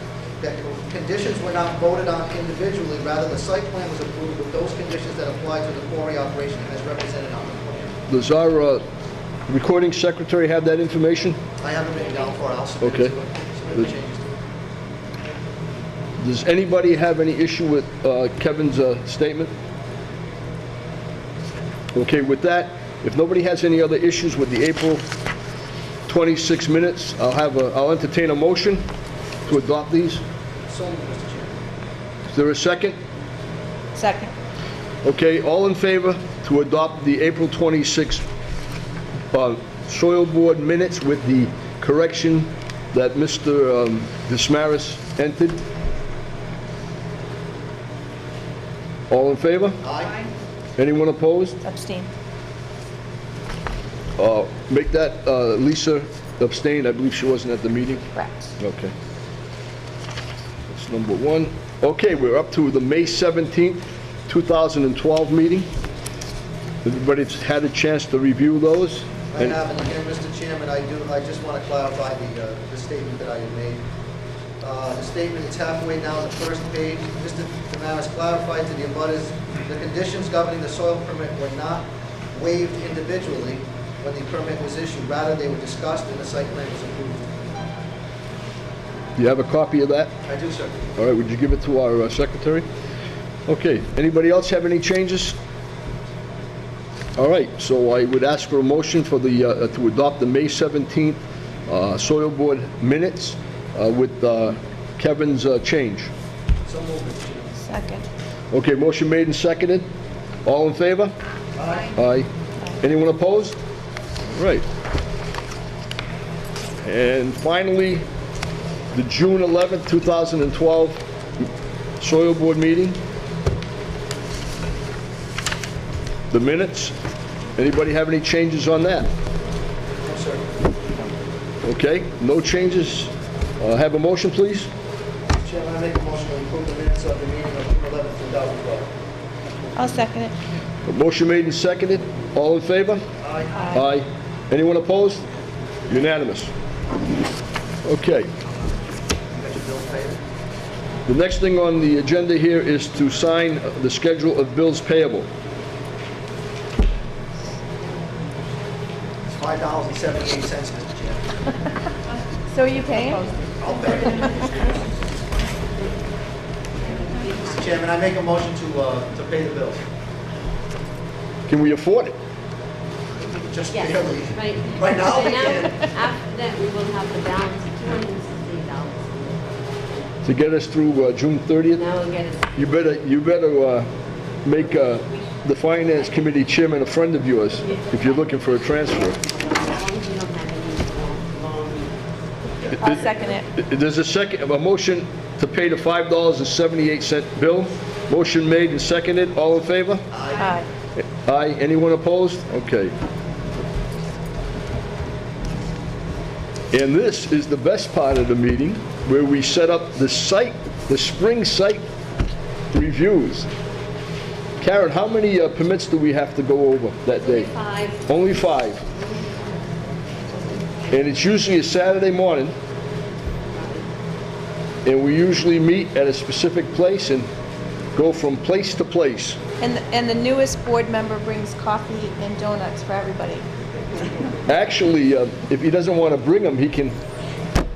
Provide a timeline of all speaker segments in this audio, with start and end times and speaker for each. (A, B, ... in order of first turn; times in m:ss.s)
0:00.4-0:07.9 A
0:08.1-0:08.8 B
0:09.5-0:11.4 B
0:11.6-0:14.4 A
0:11.9-0:12.4 C
0:12.8-0:13.1 B
0:13.3-0:13.5 C
0:16.2-0:19.5 B
0:21.9-0:25.0 B
0:26.1-0:28.8 B
0:29.4-0:30.2 B
0:30.7-0:31.5 A
0:32.3-0:33.0 B
0:33.9-0:34.3 D
0:35.0-0:38.2 B
0:39.3-0:45.6 B
0:49.1-0:49.8 B
0:49.8-0:50.1 A
0:50.8-0:51.6 B
0:51.6-0:52.1 D
0:54.2-0:58.0 B
0:58.1-0:58.5 D
0:58.6-0:58.9 B
1:00.7-1:05.7 B
1:06.8-1:09.6 B
1:09.3-1:13.8 A
1:14.6-1:27.3 A
1:29.2-1:30.1 B
1:30.2-1:30.8 A
1:31.0-1:32.6 B
1:33.5-1:35.4 B
1:37.2-1:46.1 B
1:46.6-1:47.7 A
1:47.6-1:48.0 D
1:48.5-1:49.8 B
1:50.4-1:51.1 B
1:51.6-1:51.9 A
1:51.9-1:52.3 B
1:52.8-1:53.6 B
1:54.3-1:54.6 B
1:56.8-1:58.0 B
1:58.9-2:01.0 B
2:02.0-2:03.0 B
2:06.3-2:06.9 B
2:07.6-2:09.1 B
2:10.0-2:10.4 A
2:11.6-2:14.7 B
2:15.4-2:18.9 A
2:19.7-2:20.3 D
2:20.8-2:23.0 B
2:23.2-2:23.7 A
2:23.7-2:25.2 B
2:25.9-2:26.5 B
2:27.8-2:28.3 B
2:29.3-2:30.2 A
2:31.1-2:35.3 B
2:39.3-2:41.2 A
2:42.5-2:43.4 D
2:43.6-2:45.1 A
2:44.0-2:44.3 D
2:46.8-2:47.8 C
2:47.5-2:49.8 A
2:51.5-2:52.2 B
2:53.2-2:55.9 A
2:53.7-2:59.6 C
3:00.2-3:01.8 B
3:01.7-3:02.8 C
3:02.5-3:03.9 B
3:04.4-3:09.2 B
3:04.8-3:05.3 C
3:07.6-3:12.0 C
3:12.6-3:12.9 A
3:12.7-3:20.0 B
3:12.8-3:13.4 D
3:20.1-3:20.6 A
3:20.4-3:20.7 D
3:21.2-3:22.9 B
3:26.7-3:31.8 B
3:32.7-3:33.5 B
3:34.6-3:37.5 B
3:37.1-3:38.3 C
3:38.1-3:38.8 B
3:38.9-3:41.0 C
3:40.9-3:42.5 B
3:43.5-3:43.9 C
3:44.8-3:47.3 B
3:47.9-3:49.4 B
3:49.6-3:53.4 D
3:54.5-3:56.9 B